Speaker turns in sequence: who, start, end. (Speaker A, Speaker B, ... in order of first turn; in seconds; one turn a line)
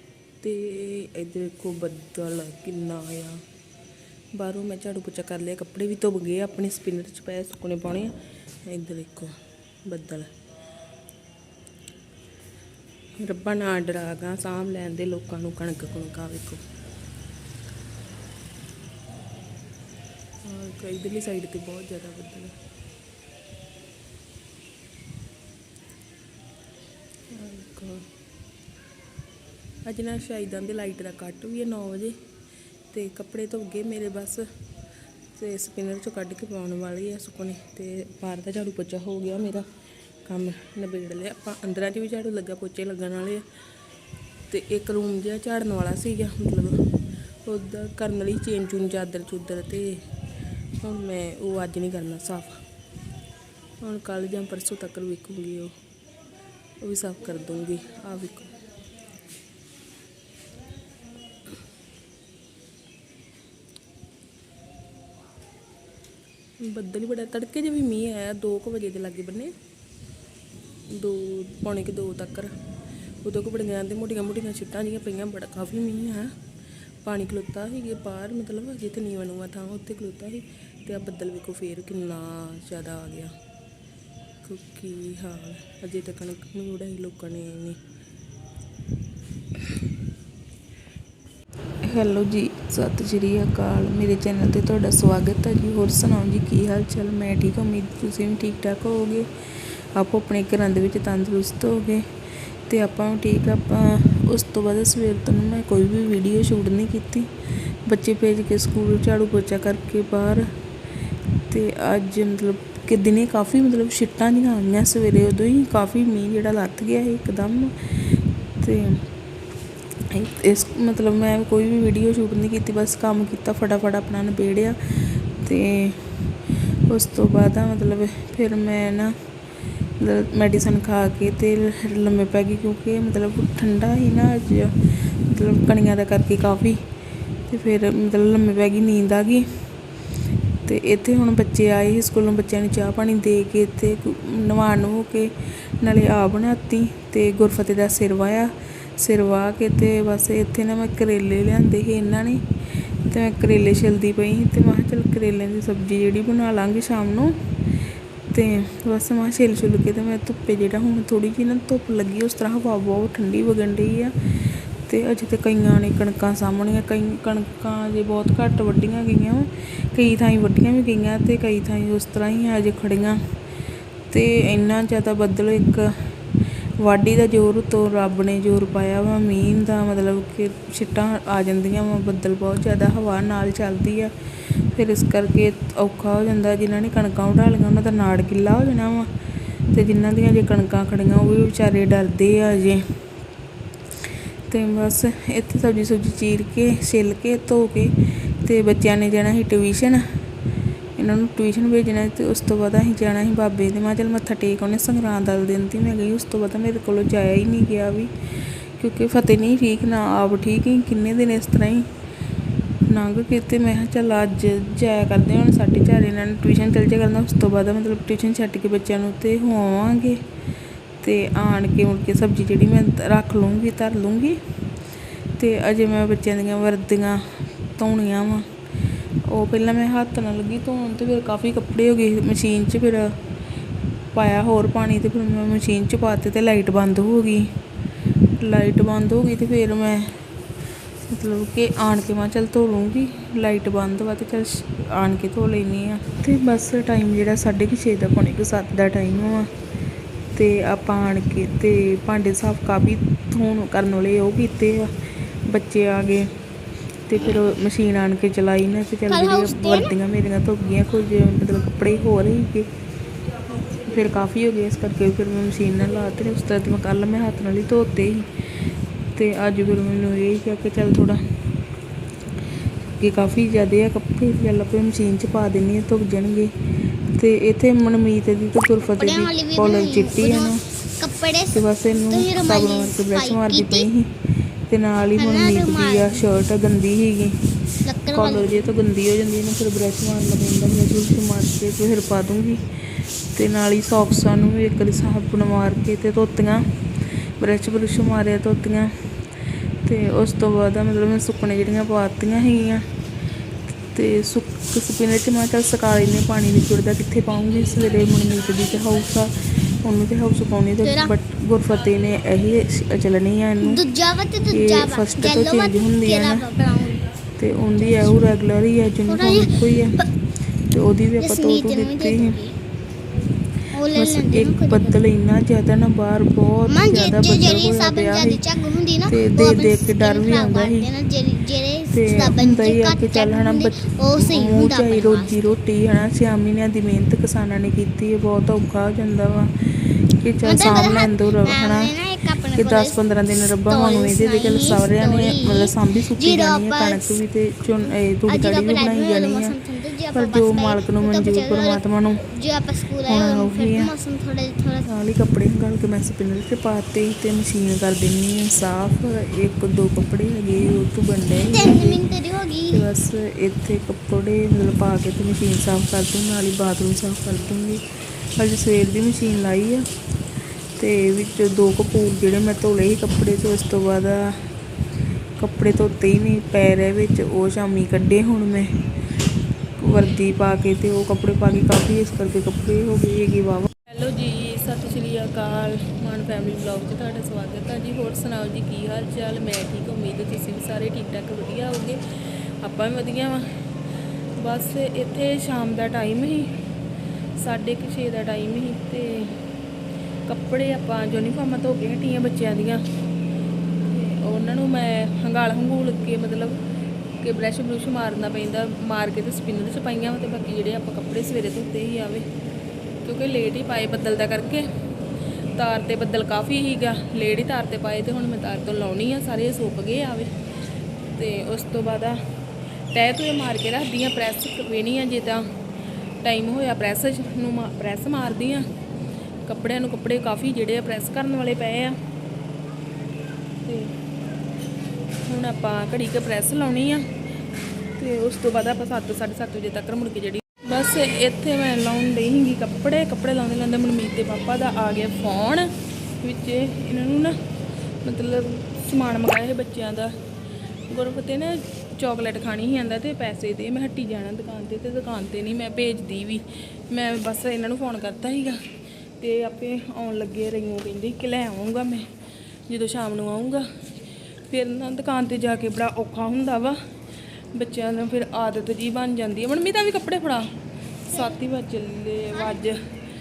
Speaker A: 0.4-3.4
Speaker A: 4.3-8.1
Speaker A: 8.7-10.3
Speaker A: 13.2-16.6
Speaker A: 20.4-22.5
Speaker A: 27.3-28.1
Speaker A: 29.8-32.2
Speaker A: 32.9-34.5
Speaker A: 35.3-39.7
Speaker A: 40.2-43.4
Speaker A: 44.5-46.8
Speaker A: 47.4-50.0
Speaker A: 50.8-52.6
Speaker A: 53.8-55.7
Speaker A: 56.8-58.5
Speaker A: 66.6-69.5
Speaker A: 70.9-72.5
Speaker A: 73.2-76.3
Speaker A: 77.0-83.3
Speaker A: 84.4-87.8
Speaker A: 91.8-102.0
Speaker A: 102.7-107.3
Speaker A: 107.9-110.5
Speaker A: 111.5-119.0
Speaker A: 120.1-126.3
Speaker A: 126.9-129.1
Speaker A: 130.0-136.8
Speaker A: 137.5-139.5
Speaker A: 140.6-157.3
Speaker A: 158.3-164.2
Speaker A: 164.8-173.2
Speaker A: 174.1-176.1
Speaker A: 176.8-189.1
Speaker A: 189.7-192.8
Speaker A: 194.5-200.2
Speaker A: 201.0-208.1
Speaker A: 208.8-211.9
Speaker A: 212.8-220.2
Speaker A: 221.0-224.4
Speaker A: 225.4-228.5
Speaker A: 229.3-233.2
Speaker A: 234.1-237.5
Speaker A: 238.3-240.2
Speaker A: 241.1-249.5
Speaker A: 250.3-254.9
Speaker A: 255.4-256.3
Speaker A: 257.1-262.7
Speaker B: 259.1-259.9
Speaker A: 263.6-268.3
Speaker A: 269.1-271.2
Speaker A: 272.9-276.5
Speaker A: 277.1-280.6
Speaker B: 278.8-283.9
Speaker A: 281.5-284.1
Speaker A: 284.7-287.4
Speaker B: 285.2-286.2
Speaker B: 287.8-288.7
Speaker A: 288.1-292.6
Speaker A: 293.3-296.6
Speaker A: 297.4-299.2
Speaker A: 299.8-302.9
Speaker A: 303.9-313.8
Speaker B: 310.8-311.1
Speaker B: 313.6-317.0
Speaker A: 314.5-316.5
Speaker A: 317.4-320.1
Speaker B: 317.8-318.3
Speaker B: 319.1-320.0
Speaker A: 320.7-322.4
Speaker B: 321.2-322.5
Speaker B: 323.7-325.0
Speaker A: 323.9-328.4
Speaker B: 326.7-335.6
Speaker A: 329.1-330.9
Speaker A: 331.9-349.6
Speaker B: 340.4-343.0
Speaker B: 343.7-347.1
Speaker B: 348.3-351.8
Speaker A: 350.1-352.3
Speaker B: 352.3-354.9
Speaker A: 353.1-353.9
Speaker A: 354.9-362.0
Speaker B: 361.5-362.8
Speaker A: 362.7-367.8
Speaker A: 368.4-369.8
Speaker A: 370.8-374.4
Speaker A: 375.4-378.7
Speaker A: 379.8-392.0
Speaker A: 392.6-393.4
Speaker A: 394.4-396.5
Speaker A: 397.4-399.3
Speaker A: 400.3-402.8
Speaker A: 403.9-406.6
Speaker A: 407.2-412.2
Speaker A: 413.0-414.6
Speaker A: 415.6-420.3
Speaker A: 421.1-422.2
Speaker A: 422.9-425.4
Speaker A: 426.2-428.6
Speaker A: 429.4-432.0
Speaker A: 433.6-433.9
Speaker A: 435.3-437.1
Speaker A: 438.0-447.4
Speaker A: 448.0-450.1
Speaker A: 450.9-458.6
Speaker A: 459.2-462.1
Speaker A: 462.7-463.6
Speaker A: 464.5-466.8
Speaker A: 467.5-470.5
Speaker A: 471.1-472.8